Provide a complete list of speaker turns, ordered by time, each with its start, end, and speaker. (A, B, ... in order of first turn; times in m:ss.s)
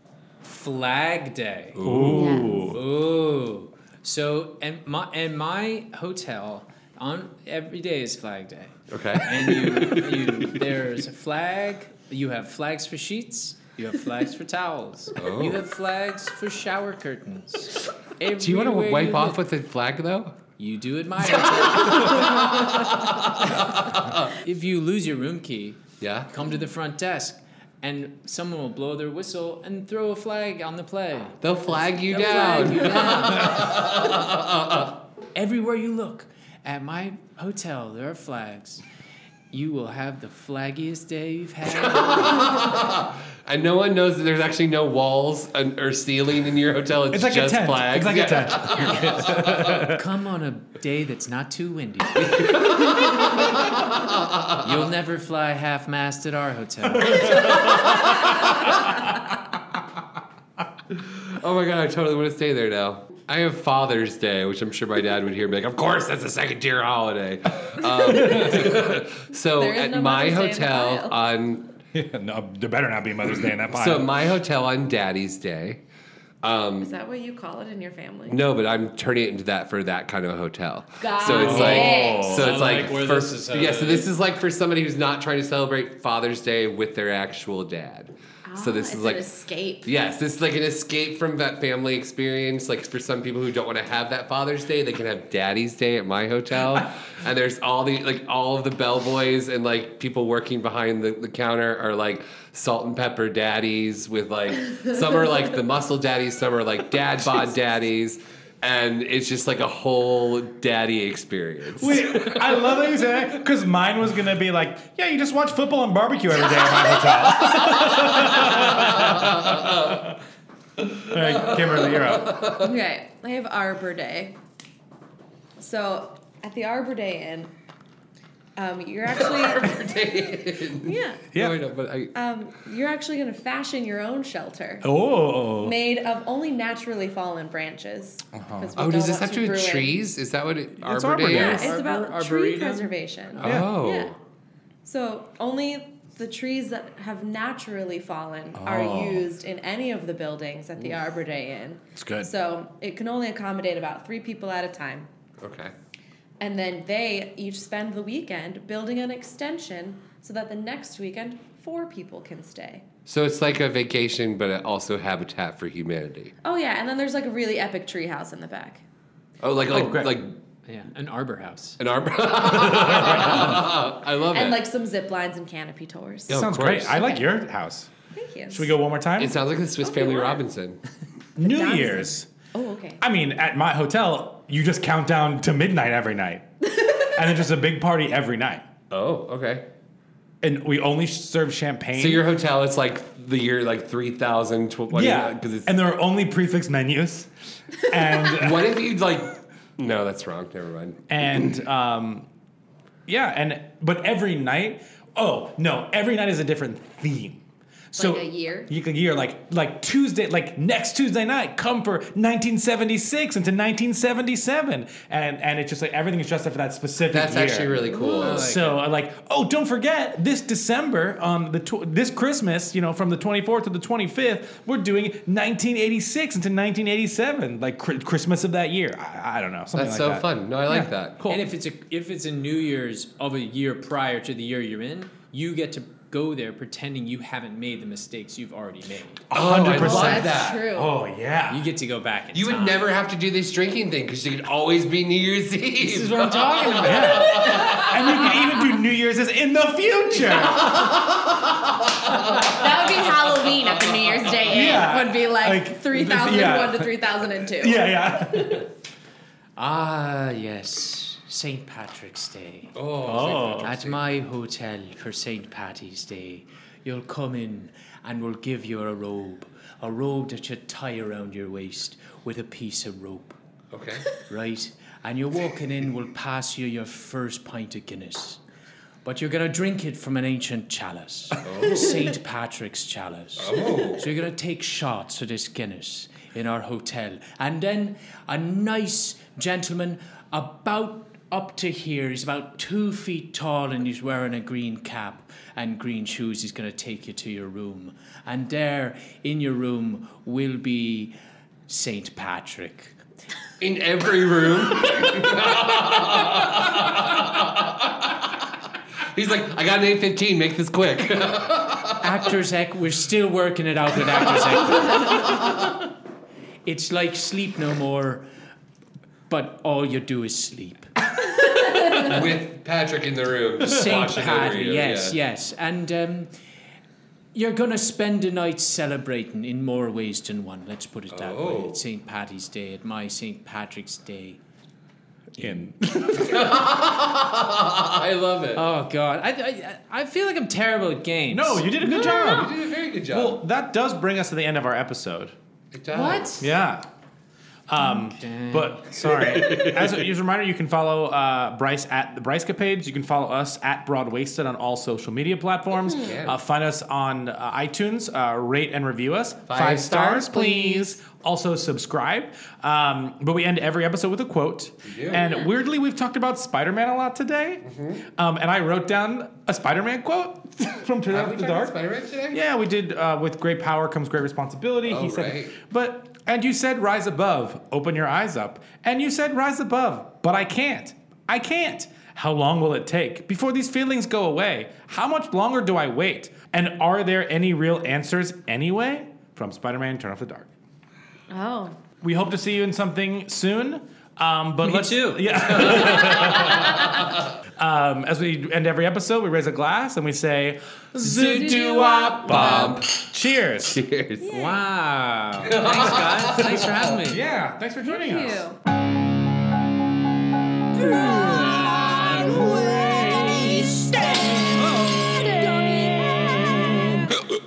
0:00.4-0:02.1 A
0:01.8-0:02.4 B
0:01.8-0:02.8 C
0:02.1-0:02.7 D
0:02.7-0:19.4 A
0:08.9-0:10.6 B
0:15.2-0:15.6 B
0:18.4-0:20.4 B
0:20.6-0:22.3 A
0:21.3-0:24.3 B
0:24.4-0:33.7 A
0:26.0-0:26.3 B
0:31.4-0:34.9 B
0:32.2-0:33.5 D
0:35.4-0:38.8 A
0:39.5-0:42.5 A
0:41.7-0:49.8 B
0:47.1-0:50.0 C
0:48.7-0:49.1 D
0:49.7-0:52.5 A
0:52.2-0:54.7 B
0:54.6-0:57.3 A
0:57.0-0:57.8 C
0:57.2-0:58.6 B
1:00.9-1:11.7 B
1:07.8-1:08.8 C
1:09.6-1:11.2 D
1:11.9-1:14.1 C
1:13.7-1:15.8 B
1:16.4-1:17.0 B
1:16.8-1:18.4 D
1:18.3-1:29.3 B
1:21.0-1:22.4 D
1:21.2-1:22.8 C
1:21.3-1:24.1 A
1:28.5-1:29.9 D
1:29.8-1:52.9 B
1:51.8-2:00.2 C
1:56.4-1:57.4 D
1:58.0-2:00.1 B
2:00.8-2:02.7 B
2:01.1-2:02.4 C
2:02.6-2:04.4 D
2:05.6-2:07.5 D
2:08.6-2:09.9 D
2:09.2-2:12.1 B
2:10.8-2:11.3 D
2:11.3-2:11.6 C
2:12.1-2:14.9 D
2:14.8-2:15.8 C
2:15.5-2:20.0 D
2:18.3-2:18.7 C
2:18.8-2:21.6 B
2:20.8-2:21.7 C
2:21.3-2:22.9 A
2:21.3-2:24.1 D
2:23.4-2:24.1 B
2:23.4-2:23.8 C
2:24.8-2:35.1 D
2:28.6-2:29.3 C
2:32.0-2:32.3 C
2:35.4-2:35.7 B
2:36.4-2:42.8 D
2:43.1-2:46.3 B
2:46.4-2:48.8 D
2:49.4-2:50.4 B
2:49.7-2:50.2 C
2:50.7-2:51.8 A
2:51.8-2:54.6 B
2:52.6-2:57.3 D
2:56.3-2:57.0 B
2:56.3-2:57.9 C
2:58.1-2:58.8 D
2:58.5-2:59.4 C
2:59.2-3:00.8 B
2:59.8-3:00.4 D
3:01.4-3:02.3 C
3:01.4-3:03.0 D
3:03.0-3:08.7 C
3:08.9-3:09.7 B
3:10.4-3:12.3 C
3:12.0-3:15.8 B
3:14.9-3:18.8 C
3:18.3-3:21.0 B
3:21.1-3:22.3 C
3:23.1-3:27.4 C
3:28.0-3:28.7 D
3:28.0-3:51.5 C
3:37.1-3:38.5 B
3:38.2-3:38.8 A
3:49.7-3:51.2 B
3:51.3-3:59.2 A
3:59.3-4:01.7 C
3:59.3-4:00.6 B
3:59.8-4:00.9 D
4:01.5-4:02.9 A
4:02.3-4:08.0 B
4:05.8-4:07.5 A
4:06.8-4:11.0 C
4:07.4-4:08.4 D
4:10.4-4:14.2 B
4:12.5-4:17.9 D
4:14.5-4:16.9 C
4:17.6-4:18.7 C
4:19.6-4:33.4 A
4:22.8-4:24.0 B
4:23.0-4:23.7 C
4:33.7-4:34.0 B
4:34.3-4:38.4 A
4:39.0-5:01.2 A
4:41.4-4:42.1 B
4:43.4-4:44.1 B
5:01.7-5:03.0 A
5:03.6-5:08.2 B
5:09.1-5:12.1 B
5:12.0-5:15.3 A
5:14.8-5:15.2 B
5:16.7-5:18.3 A
5:19.3-5:20.9 A
5:21.9-5:25.2 B
5:23.6-5:26.3 A
5:27.3-5:34.4 A
5:31.1-5:31.8 B
5:35.4-5:36.6 C
5:36.2-5:38.6 B
5:38.5-5:41.7 A
5:41.3-5:45.4 C
5:41.8-5:43.4 B
5:45.7-5:46.4 B
5:45.9-5:46.5 A
5:46.4-5:46.9 C
5:47.7-6:07.6 C
5:47.9-5:48.9 A
5:49.3-5:49.9 B
5:56.0-5:56.4 B
5:59.5-6:00.8 B
6:04.8-6:05.3 B
6:07.6-6:08.0 B
6:08.2-6:11.8 C
6:11.1-6:12.4 B
6:12.3-6:30.5 C
6:14.9-6:15.6 B
6:31.3-6:31.8 D
6:32.0-6:36.9 C
6:34.6-6:36.4 A
6:37.6-6:43.8 C
6:41.0-6:43.0 B
6:41.6-6:42.0 A
6:43.7-6:44.3 B
6:44.2-6:44.6 D
6:44.3-6:47.2 A
6:45.5-6:46.7 B
6:47.1-6:48.4 C
6:47.8-6:48.6 D